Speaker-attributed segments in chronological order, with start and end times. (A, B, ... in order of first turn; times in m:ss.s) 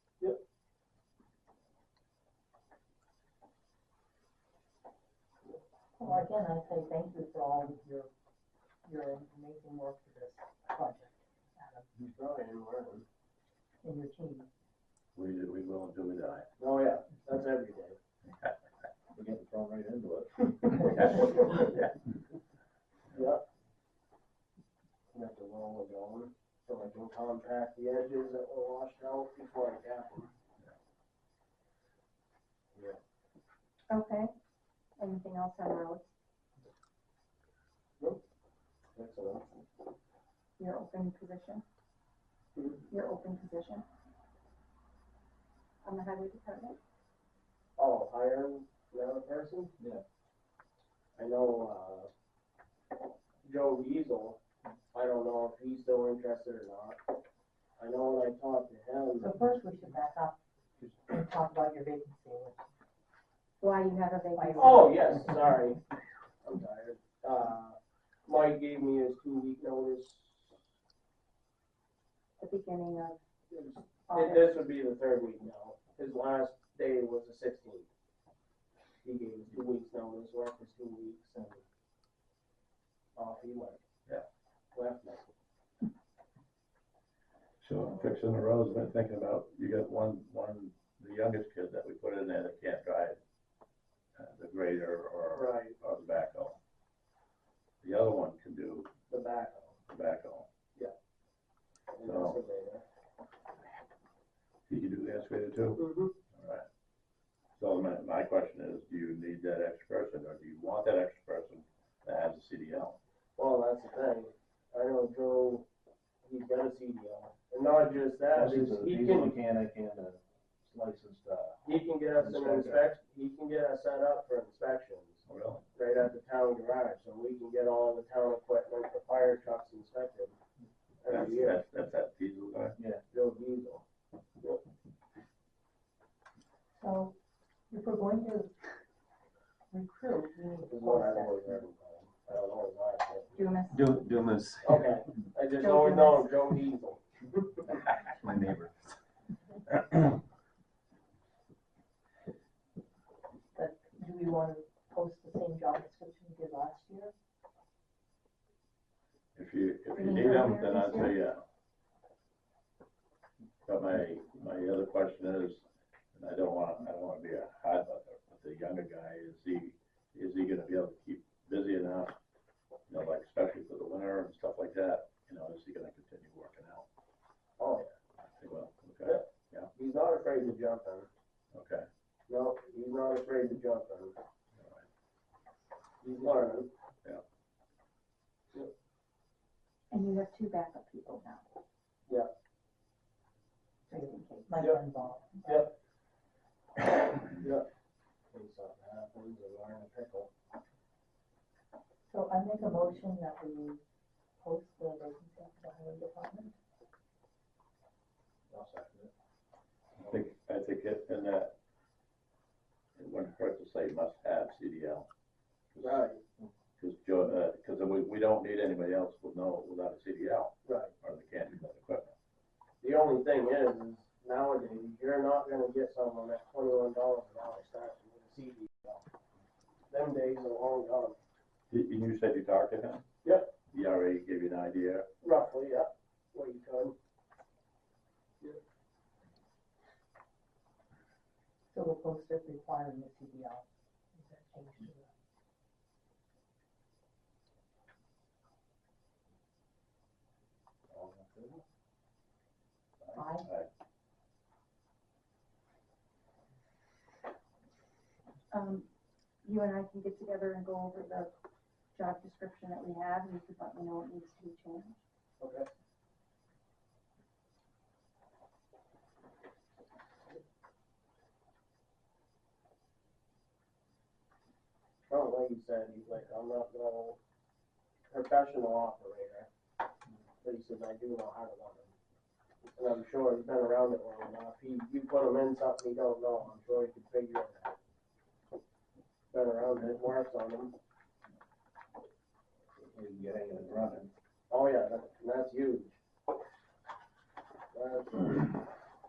0:06.0-0:08.1 A
0:08.8-0:11.9 A
0:12.1-0:13.0 B
0:13.8-0:14.5 A
0:15.2-0:16.5 C
0:16.6-0:18.0 B
0:18.2-0:18.5 C
0:19.1-0:20.7 D
0:20.9-0:21.9 C
0:21.0-0:21.7 B
0:23.1-0:23.4 B
0:25.1-0:30.3 B
0:33.9-0:34.3 E
0:35.0-0:36.1 E
0:39.0-0:39.5 B
0:40.6-0:41.6 E
0:42.6-0:42.8 B
0:42.9-0:43.8 E
0:45.8-0:46.8 E
0:47.8-0:49.7 B
0:51.2-0:52.1 B
0:53.4-0:54.4 B
0:54.9-0:57.0 B
0:57.8-0:59.3 B
0:59.2-1:02.7 A
1:03.6-1:04.9 E
1:04.4-1:05.5 A
1:04.6-1:05.8 B
1:06.4-1:10.6 B
1:12.4-1:13.2 E
1:13.5-1:17.9 B
1:14.1-1:14.6 E
1:19.0-1:21.6 B
1:23.2-1:23.8 B
1:24.7-1:25.3 B
1:27.6-1:33.2 C
1:34.2-1:36.6 C
1:35.3-1:35.8 B
1:37.8-1:38.9 C
1:39.1-1:39.8 B
1:39.9-1:40.5 C
1:41.9-1:42.8 B
1:42.0-1:42.4 C
1:44.7-1:46.7 C
1:45.8-1:46.1 B
1:47.6-1:53.0 C
1:53.4-1:55.7 B
1:56.2-1:59.3 B
1:58.3-2:02.9 D
2:01.6-2:05.2 B
2:05.3-2:05.6 C
2:05.8-2:10.4 B
2:11.0-2:11.6 B
2:11.1-2:12.8 C
2:12.8-2:13.0 D
2:13.1-2:13.8 B
2:16.8-2:17.2 A
2:17.7-2:18.5 A
2:19.7-2:21.5 A
2:20.6-2:23.7 B
2:23.4-2:23.9 E
2:23.7-2:24.9 F
2:24.6-2:27.6 B
2:25.5-2:26.3 E
2:28.2-2:29.0 F
2:33.5-2:37.1 A
2:39.4-2:41.4 C
2:39.9-2:41.2 E
2:43.7-2:52.2 C
2:52.9-2:56.8 C
2:57.6-2:57.9 B
2:58.4-2:59.7 C
2:59.8-3:01.1 B
3:01.5-3:01.9 C
3:02.3-3:04.2 B
3:04.6-3:04.8 C
3:06.0-3:06.7 B
3:09.9-3:11.4 E
3:13.9-3:15.7 A
3:15.4-3:15.7 B
3:17.2-3:17.7 B
3:18.3-3:20.3 B
3:22.1-3:23.8 A
3:24.4-3:26.6 A
3:28.5-3:29.1 D
3:30.1-3:31.5 C
3:33.0-3:35.1 C
3:35.7-3:36.0 C
3:35.8-3:36.2 B
3:36.8-3:42.1 C
3:40.6-3:40.9 B
3:42.8-3:49.0 B
3:49.9-3:51.2 B
3:51.7-3:53.0 C
3:53.7-3:55.1 C
3:55.2-3:57.0 B
4:01.7-4:05.1 A
4:10.9-4:11.6 D
4:13.0-4:13.7 C
4:13.2-4:13.5 A
4:18.5-4:18.9 E
4:19.4-4:21.3 E
4:21.9-4:25.0 E
4:25.4-4:25.7 B
4:35.1-4:37.2 B
4:38.1-4:39.5 B
4:40.4-4:41.9 B
4:42.8-4:47.8 B
4:49.3-4:50.8 B
4:52.8-4:54.1 D
4:54.5-4:56.0 B
4:57.7-4:58.6 B